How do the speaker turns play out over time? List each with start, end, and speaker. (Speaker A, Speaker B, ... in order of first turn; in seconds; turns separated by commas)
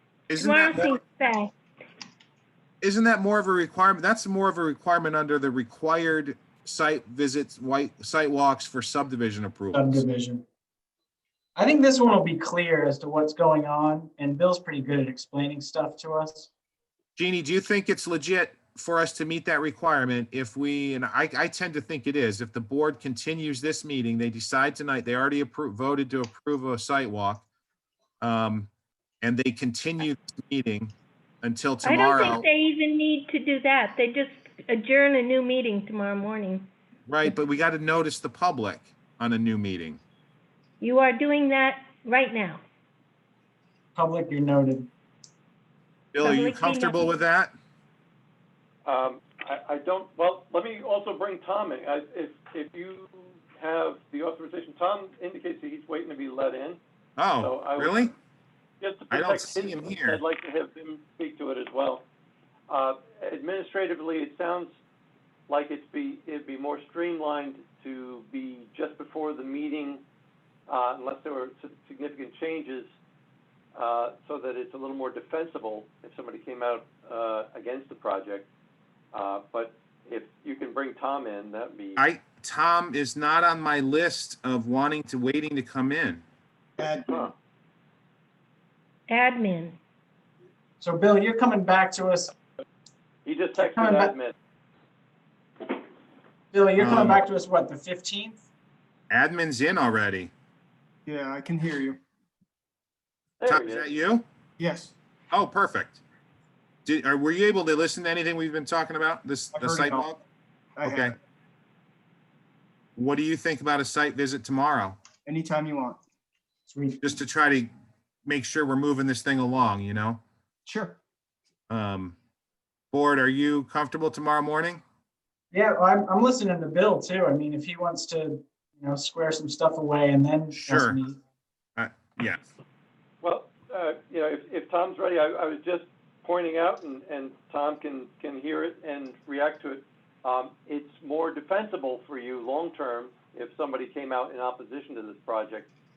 Speaker A: 0.3-0.9, Speaker B: 0.4-1.5, Speaker A: 2.8-10.0, Speaker C: 9.7-10.4, Speaker C: 11.6-16.5, Speaker A: 17.1-27.4, Speaker A: 28.2-28.7, Speaker A: 29.2-32.4, Speaker B: 31.8-36.7, Speaker A: 37.1-40.0, Speaker B: 40.8-42.6, Speaker C: 43.9-44.9, Speaker A: 46.1-47.5, Speaker B: 46.2-47.1, Speaker D: 48.8-56.8, Speaker A: 57.2-58.1, Speaker D: 57.4-58.1, Speaker D: 58.8-62.0, Speaker A: 59.1-60.2, Speaker D: 62.7-64.7, Speaker D: 65.5-70.0, Speaker D: 70.7-72.9, Speaker D: 73.7-78.5, Speaker D: 79.1-82.0, Speaker A: 82.0-86.2, Speaker E: 86.8-87.3, Speaker D: 87.1-87.3, Speaker B: 89.1-89.8, Speaker C: 90.8-92.3, Speaker D: 93.2-94.3, Speaker C: 93.6-94.1, Speaker C: 96.5-98.4, Speaker A: 96.8-97.2, Speaker A: 99.1-100.3, Speaker E: 101.0-102.0, Speaker D: 103.4-103.9, Speaker A: 103.4-104.2, Speaker E: 104.6-104.9, Speaker A: 105.3-106.0, Speaker A: 106.8-110.2, Speaker E: 109.5-110.1, Speaker E: 110.8-111.1, Speaker A: 110.8-111.2, Speaker A: 113.0-115.0, Speaker E: 115.2-116.0, Speaker C: 116.7-117.2, Speaker A: 117.0-117.7, Speaker A: 118.2-120.2, Speaker E: 120.7-121.0, Speaker A: 121.7-122.2, Speaker A: 122.9-124.8, Speaker C: 125.5-131.2, Speaker A: 130.5-131.0, Speaker A: 131.8-132.5, Speaker D: 133.2-145.7